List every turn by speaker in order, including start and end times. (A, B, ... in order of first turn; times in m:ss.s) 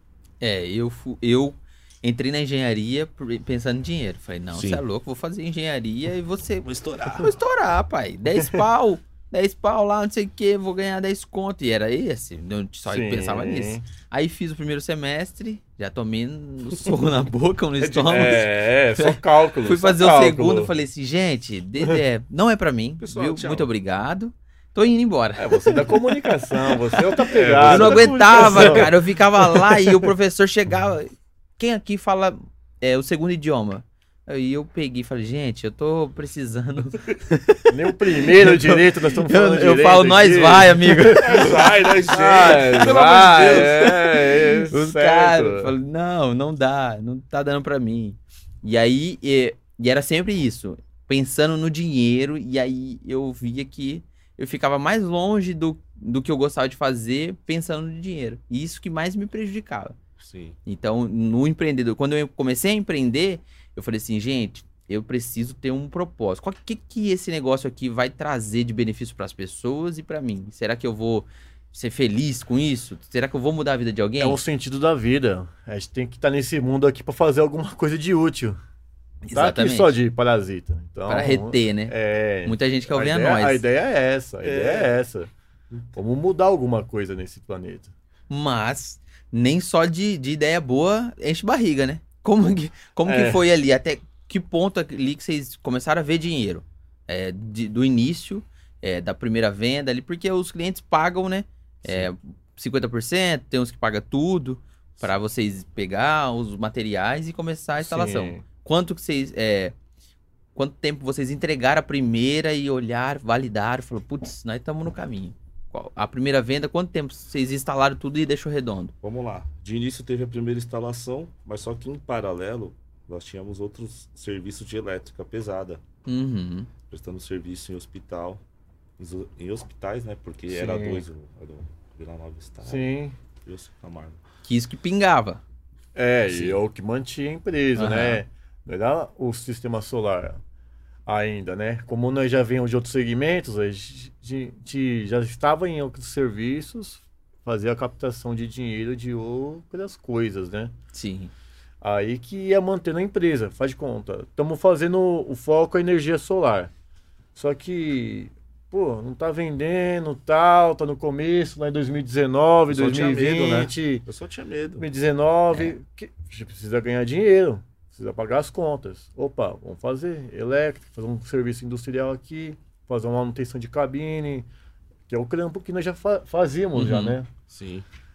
0:00.4-0:26.1 A
0:04.5-0:04.8 B
0:06.7-0:07.4 B
0:08.4-0:08.6 C
0:12.9-0:13.8 C
0:17.8-0:18.5 B
0:18.1-0:20.7 C
0:23.0-0:23.7 B
0:25.4-0:28.9 C
0:26.7-0:27.0 A
0:27.3-0:29.0 B
0:27.6-0:41.5 A
0:29.5-0:30.1 C
0:37.7-0:45.7 C
0:41.2-0:44.3 B
0:42.3-0:42.8 A
0:44.7-1:00.0 A
1:00.2-1:00.6 B
1:00.7-1:14.4 A
1:14.2-1:18.6 C
1:19.2-1:20.0 A
1:19.3-1:25.3 C
1:21.1-1:21.9 A
1:22.4-1:23.6 A
1:24.4-1:24.9 B
1:25.9-1:27.9 C
1:28.3-1:49.8 A
1:33.1-1:33.4 C
1:47.8-1:48.4 C
1:50.6-1:58.9 A
1:59.0-2:05.8 B
2:06.1-2:06.7 A
2:06.9-2:08.4 B
2:09.0-2:12.9 B
2:10.5-2:11.0 C
2:12.6-2:13.2 C
2:13.4-2:14.2 B
2:14.4-2:15.4 A
2:16.0-2:20.4 C
2:16.3-2:16.6 A
2:17.8-2:18.2 A
2:21.1-2:30.7 C
2:30.9-2:31.3 A
2:31.8-2:36.7 C
2:37.4-2:44.0 C
2:42.7-2:44.9 B
2:44.8-2:54.5 C
2:55.1-2:57.3 C
2:56.8-2:57.2 A
2:57.5-2:57.9 B